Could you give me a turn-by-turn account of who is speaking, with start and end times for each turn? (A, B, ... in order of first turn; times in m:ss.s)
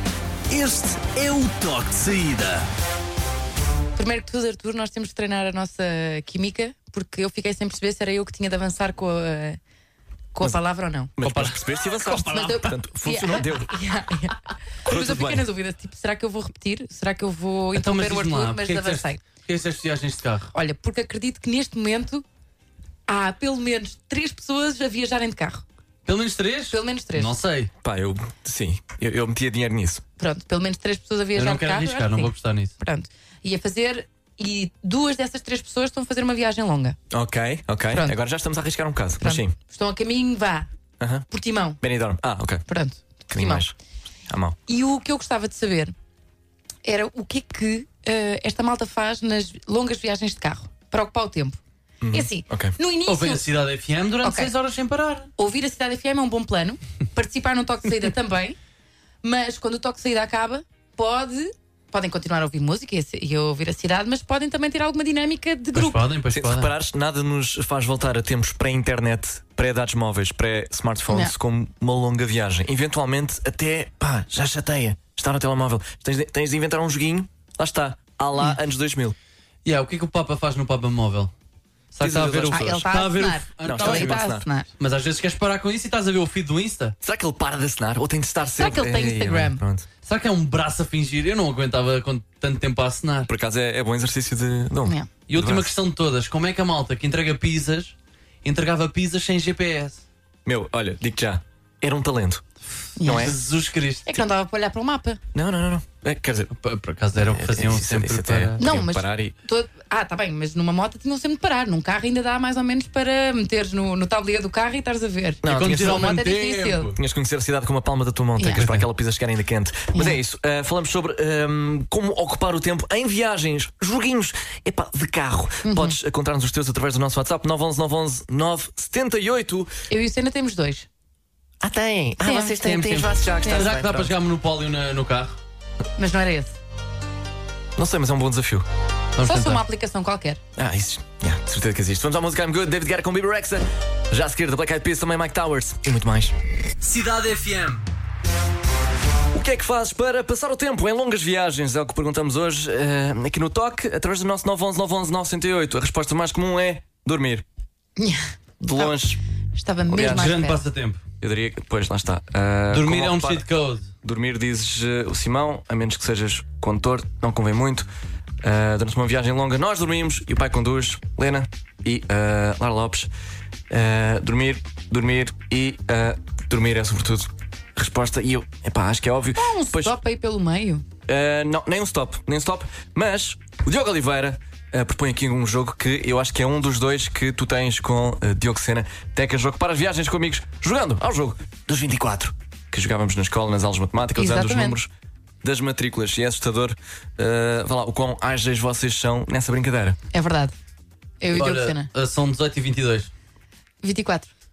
0:00.5-0:02.7 A
0:04.0-0:09.6 B
0:10.3-0:11.1 B
0:11.2-0:13.7 C
0:11.2-0:11.6 D
0:12.0-0:19.2 B
0:14.8-0:15.5 C
0:17.7-0:20.5 D
0:20.5-0:22.2 B
0:23.1-0:25.6 B
0:26.0-0:27.7 D
0:26.7-0:27.4 B
0:27.8-0:30.0 C
0:30.2-0:37.0 B
0:31.4-0:32.7 D
0:37.1-0:39.6 C
0:39.2-0:40.7 B
0:41.0-0:41.3 C
0:41.3-0:41.8 B
0:41.8-0:42.6 C
0:42.7-0:43.6 B
0:43.3-0:43.8 C
0:44.3-0:44.6 C
0:44.7-0:45.9 B
0:46.8-0:51.6 B
0:52.0-0:52.8 C
0:52.1-0:53.4 B
0:53.1-0:55.3 D
0:54.2-0:54.5 B
0:55.4-0:58.6 B
0:59.2-1:06.0 B
1:05.8-1:06.7 D
1:06.3-1:19.2 C
1:19.6-1:21.3 D
1:21.9-1:24.3 D
1:22.0-1:22.9 C
1:22.5-1:24.7 B
1:23.6-1:24.4 C
1:24.8-1:27.0 D
1:27.0-1:29.9 C
1:28.6-1:29.6 B
1:30.0-1:33.3 D
1:33.3-1:35.8 C
1:35.3-1:40.0 D
1:40.4-1:42.4 C
1:43.0-1:43.3 B
1:43.0-1:43.4 C
1:43.1-1:44.1 D
1:44.0-1:45.2 B
1:45.3-1:46.5 C
1:46.6-1:48.6 D
1:47.2-1:49.4 C
1:48.6-1:56.9 B
1:55.4-1:56.1 C
1:55.5-1:57.0 D
1:57.0-2:09.7 C
1:58.6-1:58.9 D
2:05.6-2:06.0 B
2:09.9-2:10.9 B
2:11.6-2:14.1 C
2:12.2-2:12.6 B
2:12.6-2:15.4 D
2:13.4-2:13.7 B
2:16.0-2:16.6 B
2:17.8-2:18.7 C
2:19.2-2:19.6 D
2:19.2-2:20.4 B
2:20.6-2:26.4 C
2:26.8-2:27.8 D
2:29.3-2:37.4 C
2:38.0-2:39.0 B
2:38.6-2:39.2 C
2:39.6-2:40.6 B
2:39.9-2:40.3 C
2:40.0-2:41.0 D
2:41.2-2:43.4 C
2:42.7-2:43.9 D
2:44.0-2:47.9 C
2:48.4-2:53.1 C
2:53.7-3:00.0 C
2:59.4-3:00.8 B
3:01.1-3:14.9 C
3:14.2-3:14.8 B
3:15.4-3:20.0 C
3:20.1-3:20.6 B
3:21.2-3:21.9 B
3:21.3-3:23.1 D
3:23.8-3:24.3 B